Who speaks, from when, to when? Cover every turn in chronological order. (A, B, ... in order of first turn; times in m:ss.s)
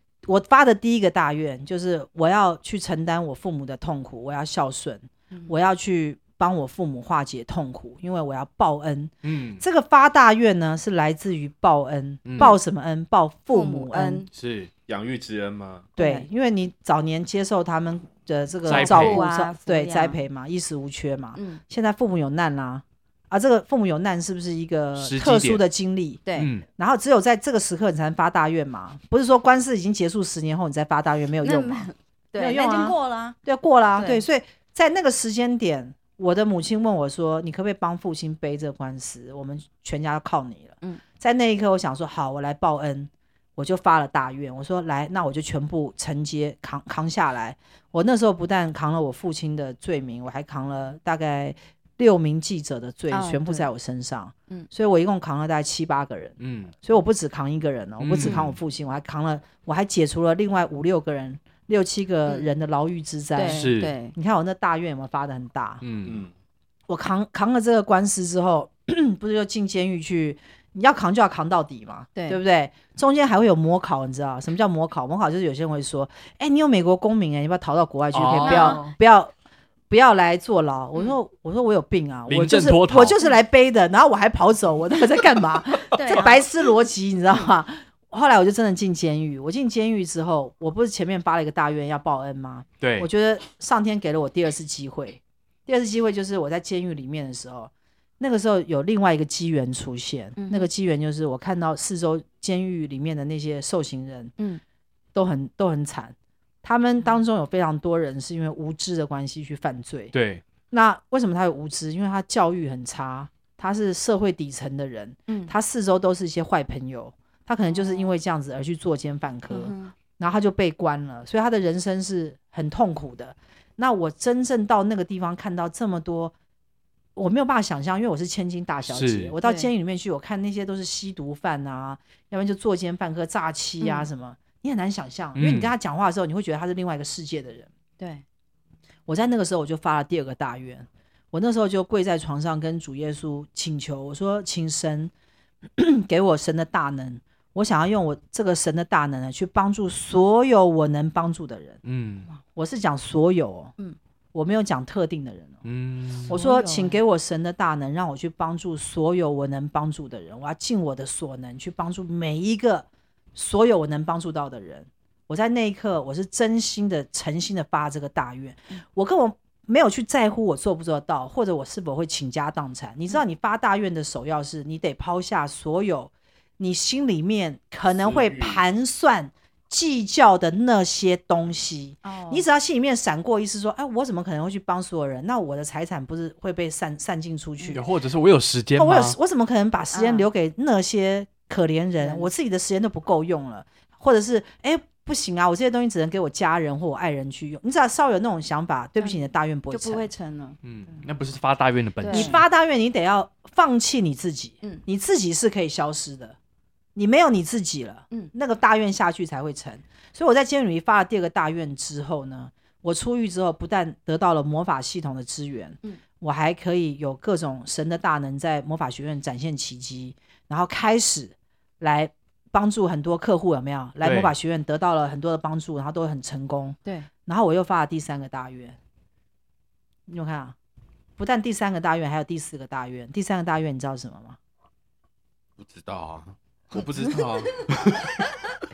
0:00.3-0:14.2 A
0:09.2-0:09.6 B
0:12.2-0:12.6 B
0:13.5-0:14.3 C
0:14.3-0:14.7 B
0:14.9-0:15.9 D
0:16.0-0:16.3 C
0:16.0-0:26.2 A
0:18.6-0:20.2 C
0:18.7-0:19.2 B
0:21.4-0:21.6 C
0:25.0-0:25.6 B
0:26.4-0:26.6 B
0:26.8-1:05.8 A
0:31.4-0:33.4 C
0:34.0-0:34.2 C
0:53.1-0:53.7 C
0:56.4-0:56.7 B
0:58.0-0:58.6 B
0:58.2-0:58.5 C
1:03.4-1:04.2 C
1:03.5-1:04.0 B
1:05.8-1:06.2 B
1:06.0-1:06.3 D
1:06.9-1:19.3 A
1:18.1-1:18.8 B
1:18.4-1:18.9 C
1:19.9-1:44.3 A
1:22.3-1:23.2 B
1:25.9-1:26.4 C
1:32.8-1:33.1 B
1:40.4-1:40.7 C
1:45.2-1:50.1 A
1:50.1-1:50.4 B
1:50.7-2:06.3 A
1:55.3-1:55.5 C
1:57.7-1:58.1 C
1:59.5-1:59.9 C
2:07.2-2:17.7 A
2:08.9-2:09.3 B
2:09.4-2:09.7 C
2:13.8-2:14.1 C
2:15.4-2:15.7 B
2:19.1-2:25.1 A
2:25.8-2:31.8 A
2:31.8-2:32.3 B
2:32.6-2:33.7 A
2:34.3-2:35.6 A
2:35.6-2:36.3 B
2:36.3-3:07.8 A
2:36.3-2:37.0 C
2:58.0-2:58.6 D
3:02.0-3:02.5 C
3:07.7-3:09.2 B
3:08.8-3:20.1 A
3:09.9-3:10.3 C
3:12.0-3:12.3 C
3:19.0-3:21.0 C
3:20.6-3:22.4 B
3:22.0-3:22.4 C
3:22.1-3:26.4 A
3:27.0-3:48.8 A
3:44.0-3:44.3 B
3:50.1-3:50.6 A
3:51.2-3:54.4 A
3:55.6-3:57.7 D
3:57.8-3:58.1 B